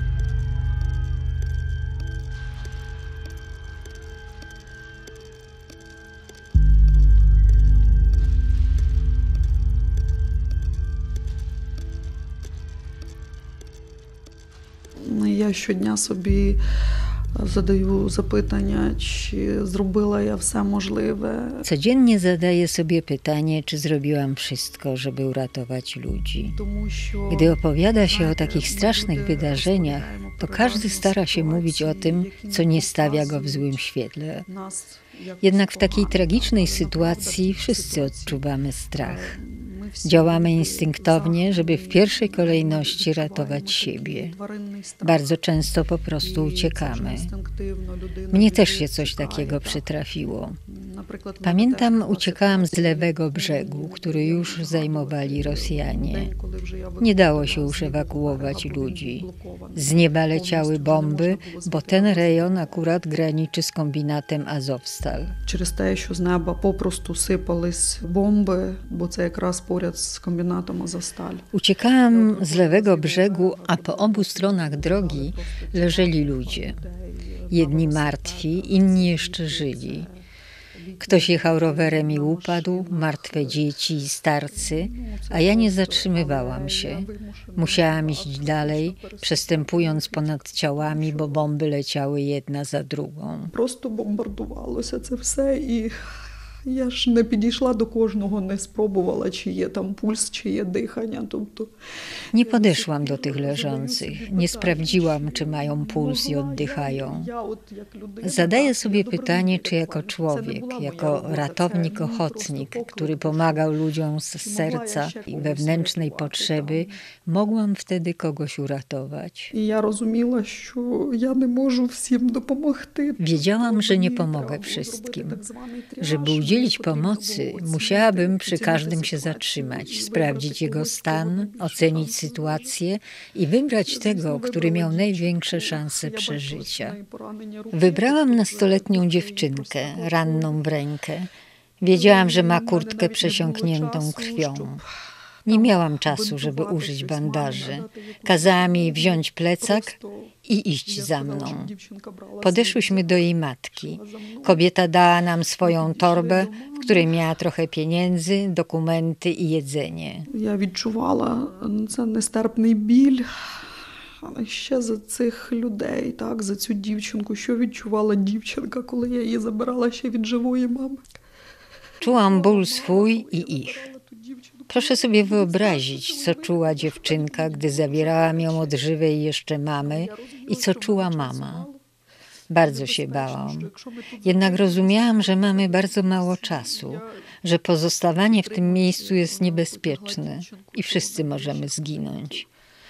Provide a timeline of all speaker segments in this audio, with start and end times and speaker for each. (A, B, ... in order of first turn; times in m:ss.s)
0:15.0-0:16.6 A
0:17.4-0:21.7 A
0:21.6-0:26.6 B
0:26.6-0:33.8 A
0:27.3-0:34.5 B
0:34.5-0:38.4 A
0:35.4-0:39.3 B
0:39.0-0:45.2 A
0:40.0-0:44.4 B
0:45.0-0:47.3 B
0:46.2-0:49.8 A
0:48.3-0:50.6 B
0:50.7-1:02.9 A
0:51.4-0:56.3 B
0:57.0-1:05.4 B
1:05.5-1:11.5 A
1:11.5-1:16.8 B
1:12.1-1:23.7 A
1:17.5-1:20.1 B
1:21.0-1:33.5 B
1:24.5-1:31.5 A
1:33.5-1:35.9 A
1:36.6-1:41.7 A
1:42.3-1:47.3 B
1:42.3-1:53.7 A
1:48.2-1:59.5 B
1:54.4-1:57.0 A
1:59.5-2:12.8 A
2:03.2-2:05.4 B
2:06.0-2:17.0 B
2:13.8-2:20.6 A
2:17.7-2:21.3 B
2:21.8-2:24.8 B
2:21.8-2:24.9 A
2:25.5-2:30.3 A
2:25.5-2:31.7 B
2:30.9-2:34.7 A
2:32.4-2:40.3 B
2:35.6-2:37.2 A
2:40.3-2:43.6 A
2:44.2-2:51.0 A
2:52.0-2:53.9 B
2:52.0-2:58.8 A
2:54.7-3:01.7 B
2:59.8-3:01.8 A
3:02.5-3:03.7 B
3:02.6-3:07.3 A
3:04.2-3:12.5 B
3:08.2-3:12.5 A